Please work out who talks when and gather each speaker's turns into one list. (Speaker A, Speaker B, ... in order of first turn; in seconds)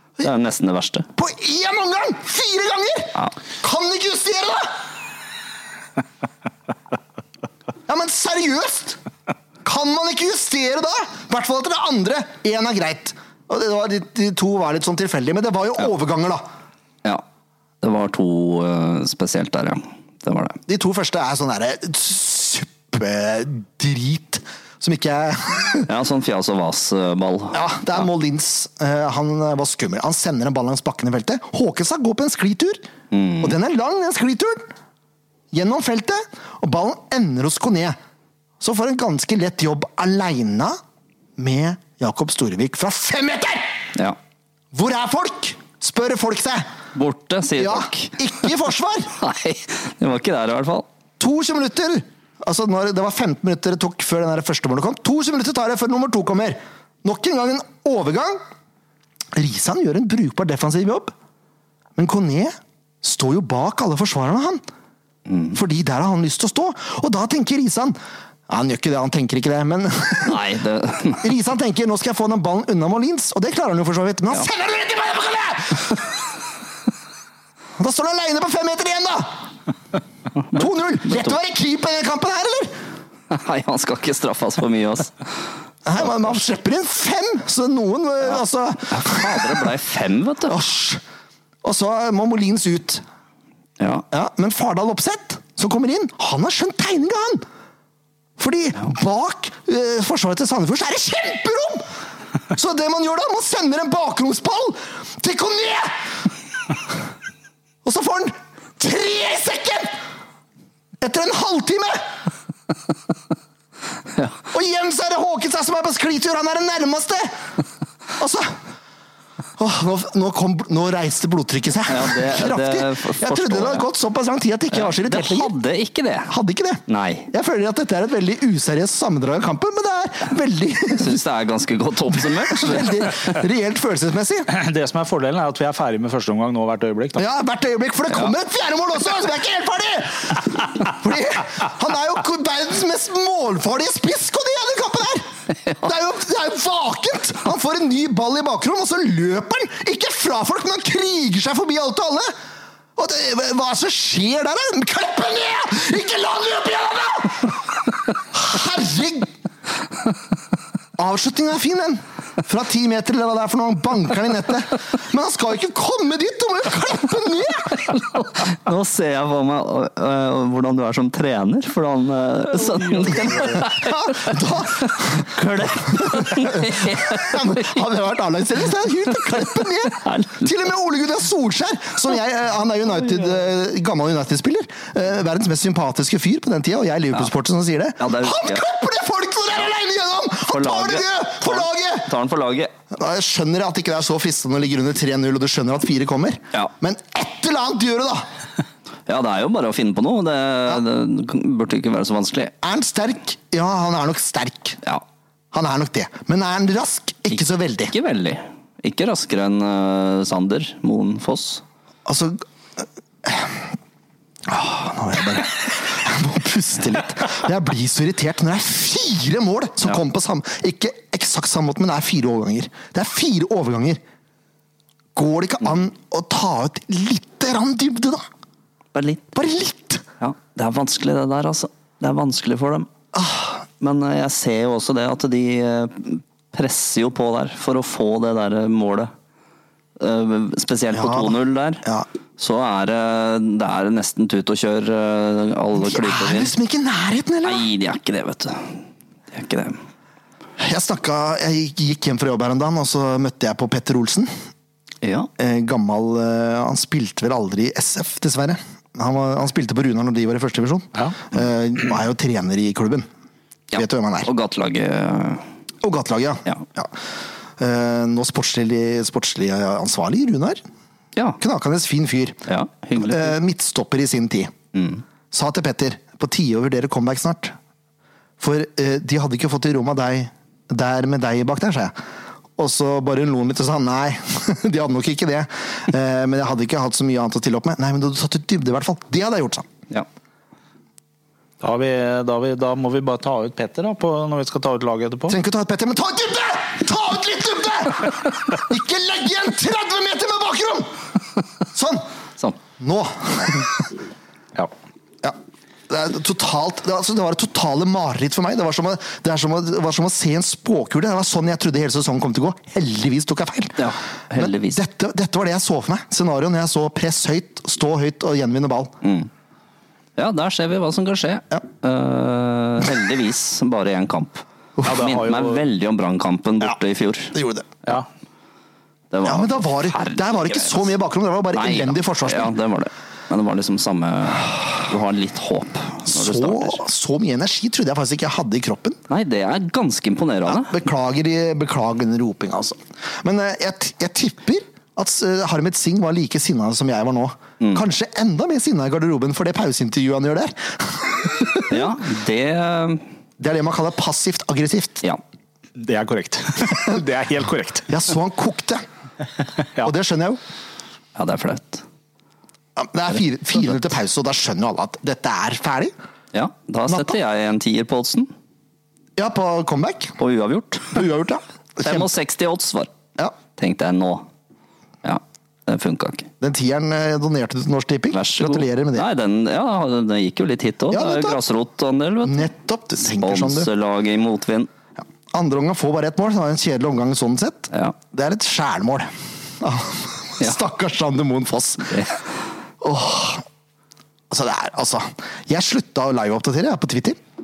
Speaker A: 0.2-1.1, 17.8-20.6, 25.9-28.0, 33.1-33.5, 46.9-48.1, 49.1-50.9, 65.3-65.6, 70.2-71.2, 83.3-85.3, 88.9-90.6, 93.8-94.0, 114.1-114.4, 121.9-123.9, 124.7-126.3, 126.9-127.3, 130.9-133.1, 167.9-177.7, 179.8-180.5, 188.0-188.7, 190.5-192.7, 199.1-202.5, 207.9-211.6, 228.9-229.3, 230.2-232.9, 233.8-239.1, 240.0-241.8, 242.4-246.5, 247.4-248.8, 249.3-249.8, 255.0-255.3, 263.7-265.4, 272.5-273.4, 274.7-275.0, 313.8-314.8, 319.0-319.3, 320.2-327.4, 329.1-330.9, 331.5-336.8, 339.1-340.8, 351.7-353.0, 361.1-361.8, 366.3-368.3, 370.2-371.1, 371.8-372.9, 373.6-374.3, 375.0-376.3, 378.1-382.5, 383.1-384.7, 391.9-392.2
Speaker B: 1.2-4.8, 7.9-9.0, 9.6-16.4, 20.7-25.9, 27.5-32.9, 33.4-34.7, 35.5-38.0, 38.6-40.8, 41.4-43.9, 44.7-46.7, 47.6-49.1, 51.2-58.4, 59.4-61.1, 62.0-64.6, 65.5-68.0, 68.5-70.4, 71.2-76.0, 77.8-79.5, 80.5-82.7, 85.9-89.7, 90.5-91.0, 91.6-93.0, 94.1-97.5, 98.4-101.9, 102.5-106.1, 107.8-109.9, 111.0-112.1, 114.5-117.4, 118.2-118.6, 119.6-125.5, 126.3-131.2, 132.4-134.5, 137.2-152.3, 153.0-157.6, 158.3-159.3, 161.0-167.8, 173.7-192.1, 192.9-198.3, 202.6-204.8, 205.5-207.9, 212.1-213.7, 214.5-224.0, 225.2-228.3, 229.3-230.1, 233.1-233.6, 240.9-242.1, 245.8-247.7, 250.6-254.3, 255.4-263.1, 263.7-264.3, 265.8-266.9, 267.6-270.6, 271.4-272.4, 273.0-274.5, 275.3-277.6, 278.4-281.9, 282.6-289.7, 295.3-300.9, 301.7-302.1, 302.8-303.9, 305.9-319.0, 327.3-327.7, 329.2-332.5, 336.1-339.0, 340.5-351.9, 353.4-355.0, 357.9-358.8, 359.8-360.4, 362.8-365.9, 366.9-367.1, 369.2-370.2, 370.9-372.1, 376.4-379.1, 380.9-381.4, 382.2-383.7, 385.3-389.1, 389.6-392.1, 392.8-393.4, 394.3-397.2
Speaker C: 134.5-137.2, 291.6-295.4, 324.9-325.6, 355.8-357.9